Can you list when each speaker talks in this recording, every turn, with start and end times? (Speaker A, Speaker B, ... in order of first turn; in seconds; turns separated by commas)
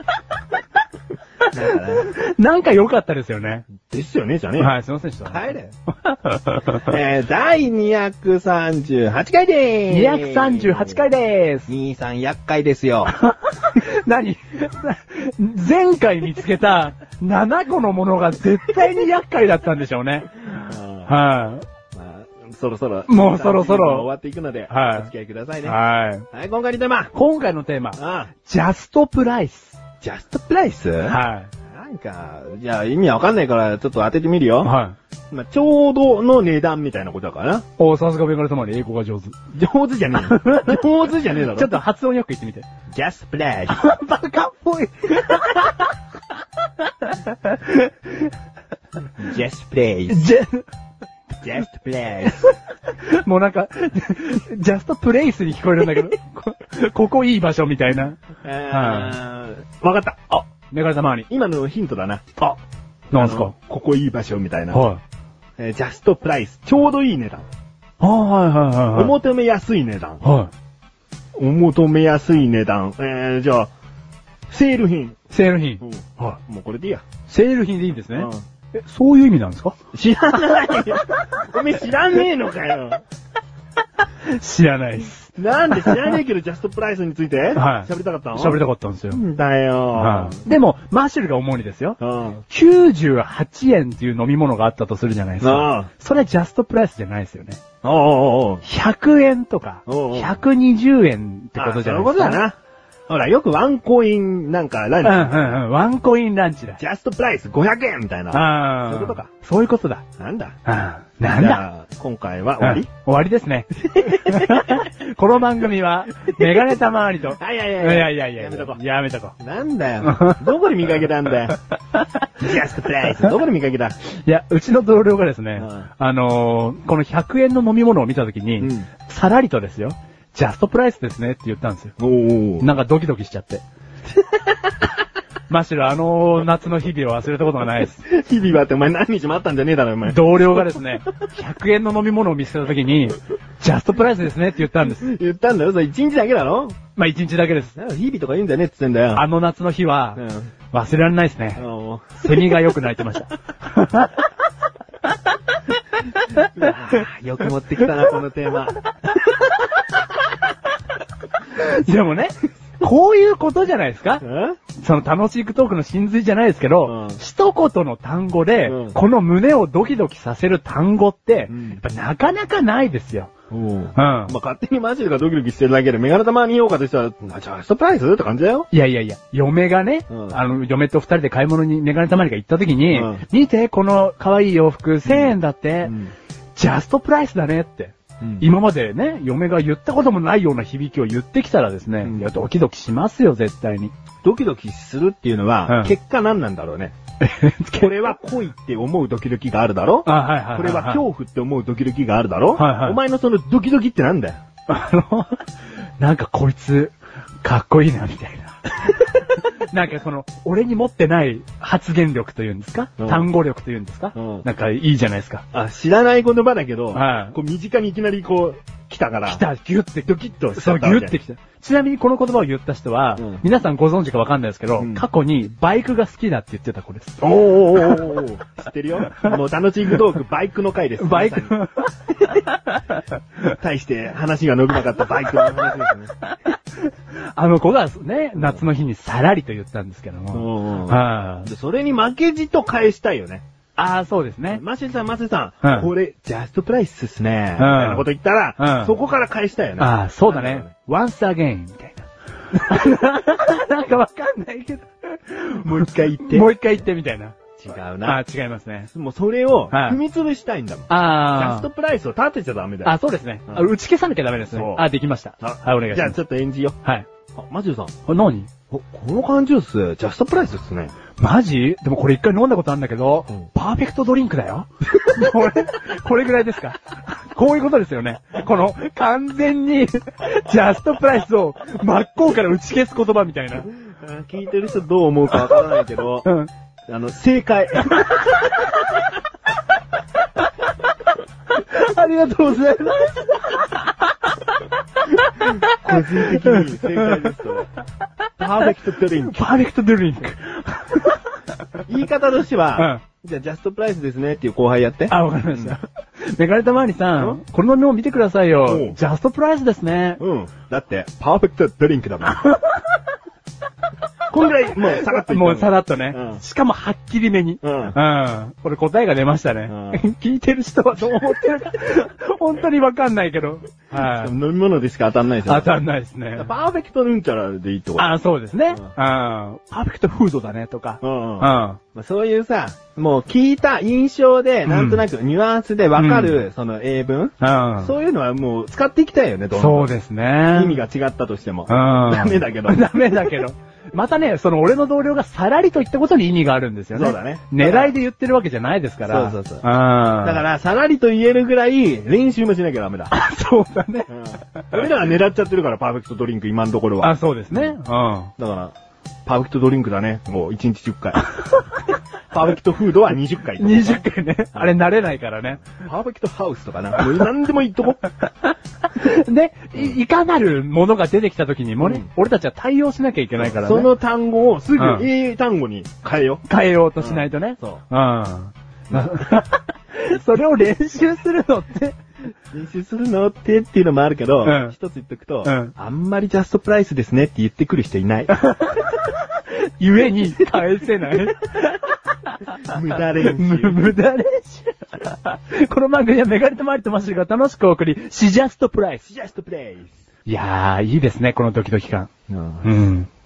Speaker A: 1.5-3.7, Speaker B: 1.5-2.1, Speaker B: 3.8-4.7, Speaker A: 4.6-6.9, Speaker B: 5.2-5.7, Speaker B: 6.8-11.1, Speaker A: 9.9-11.7, Speaker B: 11.7-13.1, Speaker A: 13.1-21.6, Speaker B: 20.5-21.1, Speaker B: 21.9-25.8, Speaker A: 23.1-24.1, Speaker A: 24.7-25.1, Speaker A: 25.6-26.3, Speaker B: 26.3-27.1, Speaker A: 27.1-29.8, Speaker B: 27.9-28.3, Speaker B: 30.0-31.2, Speaker A: 31.1-31.5, Speaker B: 31.7-34.7, Speaker A: 34.6-35.0, Speaker B: 35.3-37.6, Speaker A: 37.8-39.4, Speaker B: 39.5-41.7, Speaker A: 40.1-40.8, Speaker A: 41.3-42.7, Speaker B: 42.9-43.8, Speaker A: 43.7-45.9, Speaker A: 47.0-48.3, Speaker B: 49.2-50.2, Speaker A: 50.1-50.6, Speaker B: 51.4-52.5, Speaker A: 52.4-59.1, Speaker B: 58.4-60.2, Speaker A: 60.3-61.3, Speaker B: 61.3-62.2, Speaker A: 63.1-63.5, Speaker B: 63.1-64.9, Speaker A: 64.7-65.0, Speaker B: 65.6-67.5, Speaker A: 68.0-69.2, Speaker B: 68.9-70.2, Speaker A: 70.2-70.5, Speaker B: 71.3-73.7, Speaker B: 74.5-75.2, Speaker A: 75.3-76.4, Speaker B: 75.8-77.0, Speaker A: 77.3-79.8, Speaker B: 78.1-78.4, Speaker B: 79.9-83.0, Speaker A: 84.2-86.1, Speaker B: 85.4-90.4, Speaker A: 87.5-89.2, Speaker A: 89.9-97.6, Speaker B: 92.0-92.4, Speaker B: 95.4-95.9, Speaker B: 97.8-98.6, Speaker A: 98.6-102.4, Speaker B: 99.9-100.4, Speaker B: 101.5-102.5, Speaker B: 103.1-105.6, Speaker A: 105.0-106.8, Speaker B: 106.8-109.3, Speaker A: 108.3-110.0, Speaker B: 110.2-110.6, Speaker A: 110.7-111.6, Speaker B: 111.3-112.9, Speaker A: 112.6-119.3, Speaker B: 114.0-114.6, Speaker B: 117.4-118.8, Speaker B: 119.4-121.6, Speaker A: 120.0-120.4, Speaker B: 122.4-124.0, Speaker A: 124.2-131.9, Speaker B: 125.6-125.9, Speaker B: 128.6-128.9, Speaker B: 132.0-132.7, Speaker A: 132.6-133.6, Speaker A: 135.5-138.0, Speaker B: 138.0-140.8, Speaker A: 140.0-145.1, Speaker B: 144.8-146.8, Speaker A: 146.9-147.7, Speaker B: 147.8-149.2, Speaker A: 149.1-151.6, Speaker B: 150.2-150.5, Speaker B: 151.6-152.6, Speaker A: 152.2-154.3, Speaker B: 156.4-159.8, Speaker A: 161.5-164.2, Speaker B: 164.2-164.6, Speaker A: 164.8-173.3, Speaker B: 166.8-167.2, Speaker B: 168.6-169.0, Speaker B: 171.5-171.8, Speaker B: 173.5-178.7, Speaker A: 173.9-174.3, Speaker A: 178.7-185.9, Speaker B: 180.1-180.4, Speaker B: 182.9-183.2, Speaker B: 185.0-186.1, Speaker A: 186.6-193.9, Speaker B: 188.2-188.5, Speaker B: 192.0-192.3, Speaker B: 194.2-196.9, Speaker A: 195.7-195.9, Speaker A: 197.2-198.1, Speaker B: 197.7-204.4, Speaker A: 200.1-201.0, Speaker A: 202.6-203.0, Speaker A: 204.7-205.5, Speaker A: 206.0-215.4, Speaker B: 213.0-213.2, Speaker B: 214.1-214.4, Speaker B: 215.5-219.4, Speaker A: 216.9-217.3, Speaker A: 219.3-228.1, Speaker B: 220.5-221.2, Speaker B: 223.2-223.4, Speaker B: 224.8-225.1, Speaker B: 227.2-231.5, Speaker A: 231.0-233.0, Speaker B: 233.6-236.1, Speaker A: 236.2-241.5, Speaker B: 240.3-243.4, Speaker A: 243.8-244.6, Speaker B: 244.5-250.7, Speaker A: 245.6-245.9, Speaker A: 247.6-248.1, Speaker A: 248.6-248.9, Speaker A: 249.8-257.4, Speaker B: 255.6-256.5, Speaker B: 257.6-258.2, Speaker A: 258.0-258.9, Speaker B: 258.9-262.9, Speaker A: 259.7-260.0, Speaker A: 260.9-261.7, Speaker A: 262.8-266.2, Speaker B: 264.5-264.9, Speaker B: 265.4-266.8, Speaker A: 266.8-267.1, Speaker B: 267.3-267.9, Speaker A: 268.1-268.5, Speaker B: 268.7-270.9, Speaker A: 271.2-283.7, Speaker B: 283.7-286.3, Speaker A: 285.3-285.6, Speaker B: 286.9-288.4, Speaker A: 287.9-288.2, Speaker A: 291.5-297.2, Speaker B: 295.7-297.7, Speaker B: 298.4-299.4, Speaker A: 299.2-301.3, Speaker B: 301.8-305.7, Speaker A: 302.8-303.0, Speaker A: 305.1-310.2, Speaker B: 308.6-309.0, Speaker B: 310.2-312.4, Speaker A: 312.4-312.8, Speaker B: 314.3-316.4, Speaker A: 314.8-324.3, Speaker B: 317.6-318.0, Speaker B: 319.7-320.0, Speaker B: 323.9-325.8, Speaker A: 325.4-326.5, Speaker B: 326.3-328.1, Speaker A: 328.0-331.8, Speaker B: 331.0-340.0, Speaker A: 334.7-335.0, Speaker A: 335.9-336.4, Speaker A: 337.4-337.9, Speaker A: 339.5-340.8, Speaker B: 340.5-342.9, Speaker A: 341.7-350.4, Speaker B: 346.9-347.9, Speaker B: 349.1-349.6, Speaker B: 350.2-353.1, Speaker A: 353.1-354.9, Speaker B: 354.1-357.8, Speaker A: 357.0-358.3, Speaker B: 358.4-358.7, Speaker B: 359.2-361.2, Speaker B: 362.3-364.7, Speaker A: 363.6-365.6, Speaker B: 365.6-368.0, Speaker A: 367.0-367.3, Speaker A: 368.9-373.9, Speaker B: 371.8-372.1, Speaker B: 373.4-376.4, Speaker A: 374.8-375.1, Speaker A: 376.5-382.0, Speaker B: 377.0-377.8, Speaker B: 378.9-379.2, Speaker B: 382.5-388.3, Speaker A: 384.4-384.7, Speaker A: 385.4-385.7, Speaker A: 388.3-392.5, Speaker B: 392.7-393.9, Speaker A: 393.2-399.0, Speaker B: 399.0-400.0, Speaker A: 400.2-402.1, Speaker B: 402.3-402.8, Speaker A: 402.6-403.1